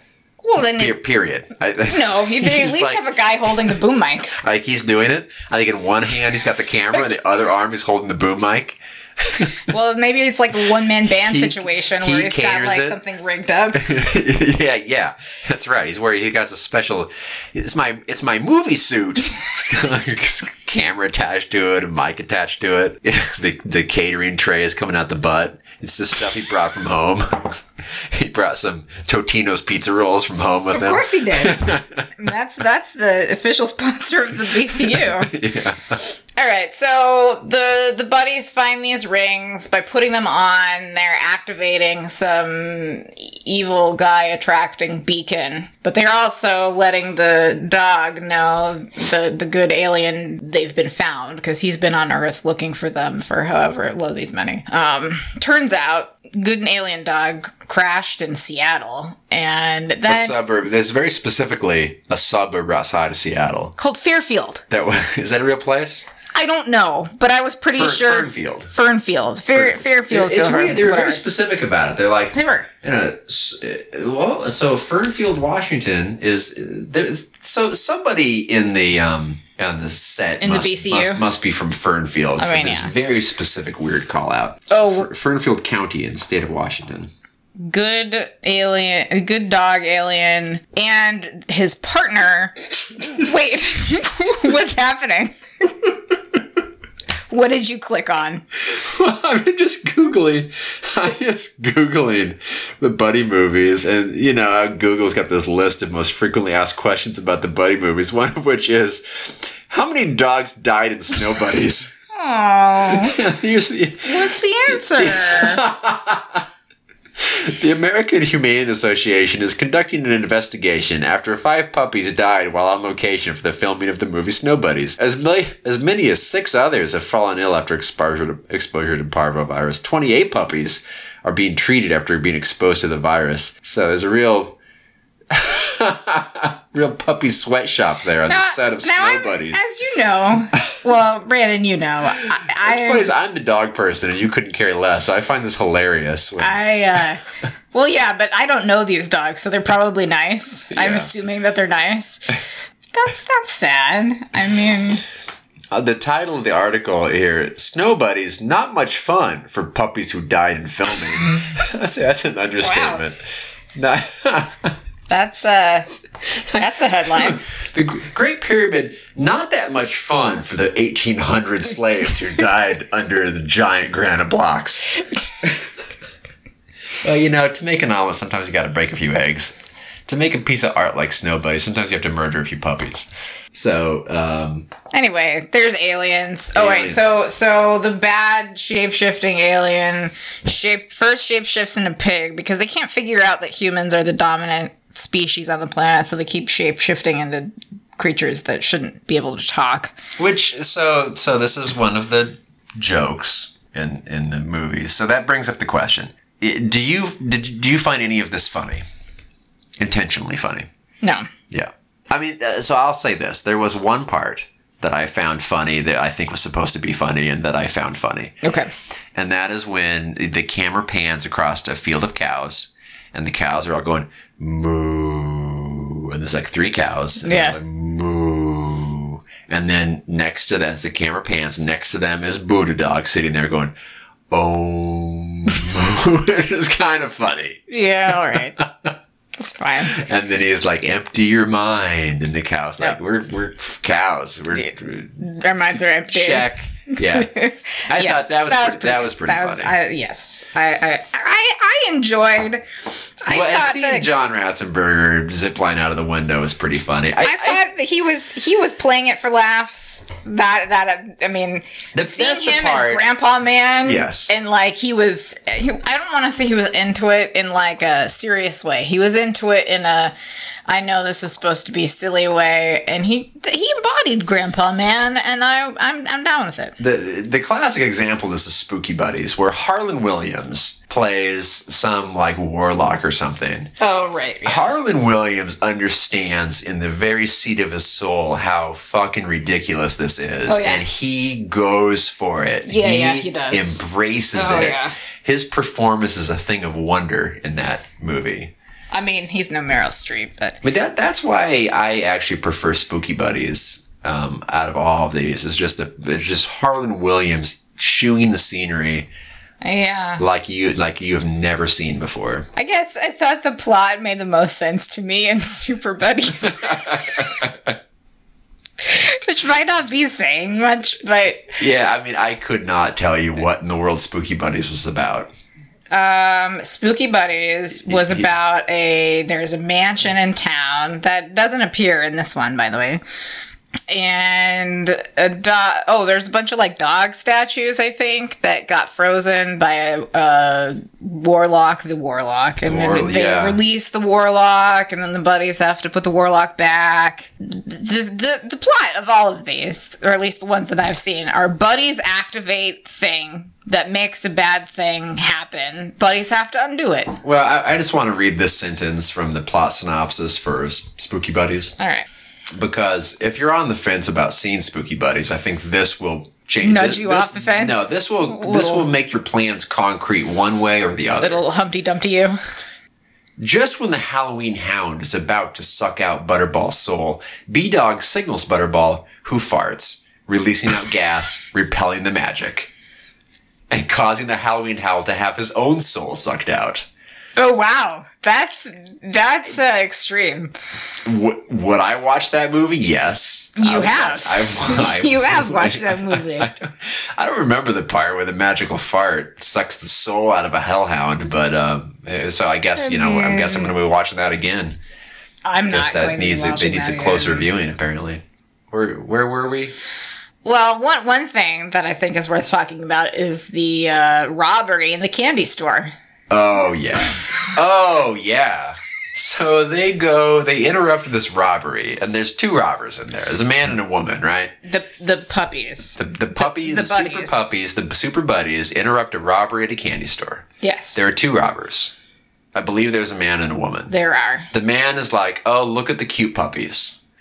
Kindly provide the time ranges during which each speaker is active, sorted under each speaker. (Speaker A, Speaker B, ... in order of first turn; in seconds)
Speaker A: 0.4-1.0, 1.9-4.4, 9.6-13.9, 30.7-35.3, 36.4-60.4, 63.8-64.6, 66.3-71.2, 72.3-72.7, 80.4-81.2, 82.4-82.9, 84.7-85.1, 87.6-95.9, 97.3-98.4, 112.1-113.2, 114.0-115.6, 138.3-143.1, 146.4-155.0, 162.6-163.0, 165.1-166.0, 166.5-167.4, 184.9-199.9, 211.0-211.3, 218.4-218.7, 227.2-227.6, 237.7-238.6, 239.3-240.0, 244.5-254.1, 257.2-270.1, 270.7-276.8, 283.8-284.7, 290.5-290.9, 292.6-293.8, 294.3-294.9, 298.9-300.6, 309.6-310.2, 312.6-317.3, 318.8-321.6, 325.9-333.0, 333.9-357.2, 361.8-362.1, 366.6-368.9, 371.2-372.4, 387.4-390.5, 393.6-396.5, 402.8-403.7, 405.4-407.5, 410.4-415.9, 424.6-427.5, 430.6-431.0, 433.9-434.5
Speaker B: 0.6-3.0, 4.4-9.6, 11.2-13.0, 13.8-32.0, 34.8-36.0, 60.1-63.8, 64.7-66.1, 67.8-68.7, 69.5-87.1, 98.6-111.9, 112.9-116.5, 117.2-134.6, 135.3-139.6, 142.2-146.6, 150.7-151.1, 155.7-163.2, 163.7-164.8, 166.1-175.7, 177.0-184.7, 186.5-187.0, 200.2-208.8, 209.8-210.7, 211.5-218.4, 219.2-233.7, 234.3-237.6, 238.6-238.9, 239.9-245.2, 246.1-247.3, 247.9-249.7, 253.3-257.6, 261.9-263.1, 263.9-264.3, 276.8-283.7, 284.4-298.5, 300.6-309.1, 310.2-312.5, 316.4-317.8, 321.6-325.3, 327.8-328.3, 342.6-343.6, 357.2-361.8, 362.5-371.4, 373.4-382.7, 383.7-386.9, 391.1-404.8, 405.7-409.7, 416.3-424.5, 426.0-432.0, 432.5-433.9, 434.5-437.0